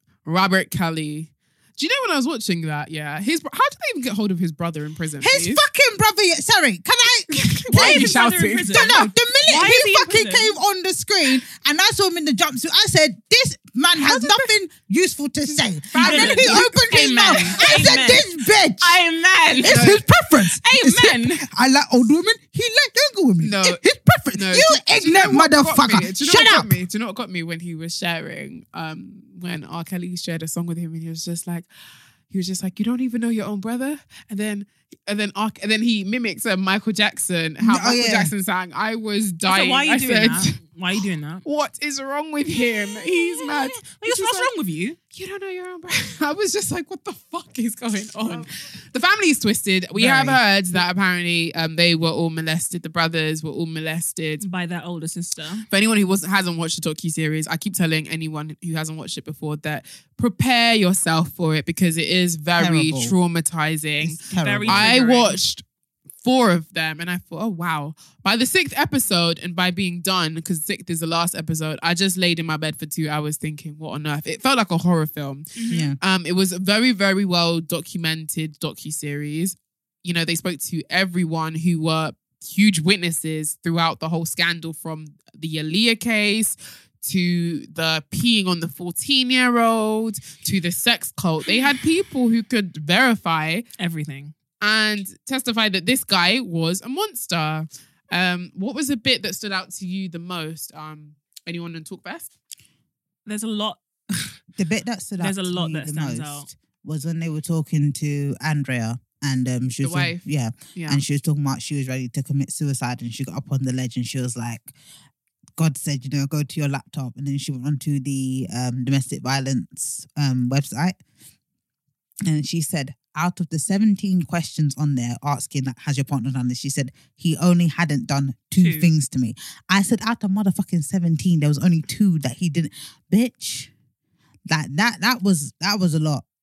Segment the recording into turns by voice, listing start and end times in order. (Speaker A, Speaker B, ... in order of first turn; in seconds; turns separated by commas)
Speaker A: 0.2-5.6, Speaker B: 5.2-8.1, Speaker A: 7.3-9.1, Speaker C: 7.7-10.5, Speaker B: 8.7-19.0, Speaker C: 14.0-14.4, Speaker A: 15.9-16.7, Speaker C: 15.9-18.3, Speaker A: 17.2-17.6, Speaker C: 18.8-20.0, Speaker B: 19.6-26.7, Speaker A: 19.6-20.0, Speaker C: 20.5-21.4, Speaker A: 23.4-31.7, Speaker A: 32.3-44.5, Speaker B: 37.6-38.3, Speaker C: 39.5-41.4, Speaker C: 42.6-45.0, Speaker A: 45.1-54.4, Speaker C: 49.9-50.4, Speaker C: 54.4-55.7, Speaker A: 55.7-65.6, Speaker B: 62.6-63.1, Speaker B: 64.0-64.9, Speaker C: 64.3-65.4, Speaker A: 66.2-93.6, Speaker C: 75.5-75.9, Speaker B: 75.7-76.0, Speaker C: 93.8-94.3, Speaker A: 94.6-102.3, Speaker C: 103.3-104.3, Speaker B: 104.5-114.7, Speaker C: 105.2-106.5, Speaker A: 109.8-111.0, Speaker B: 115.6-121.0, Speaker B: 122.2-133.7, Speaker C: 128.6-128.9, Speaker B: 134.5-136.2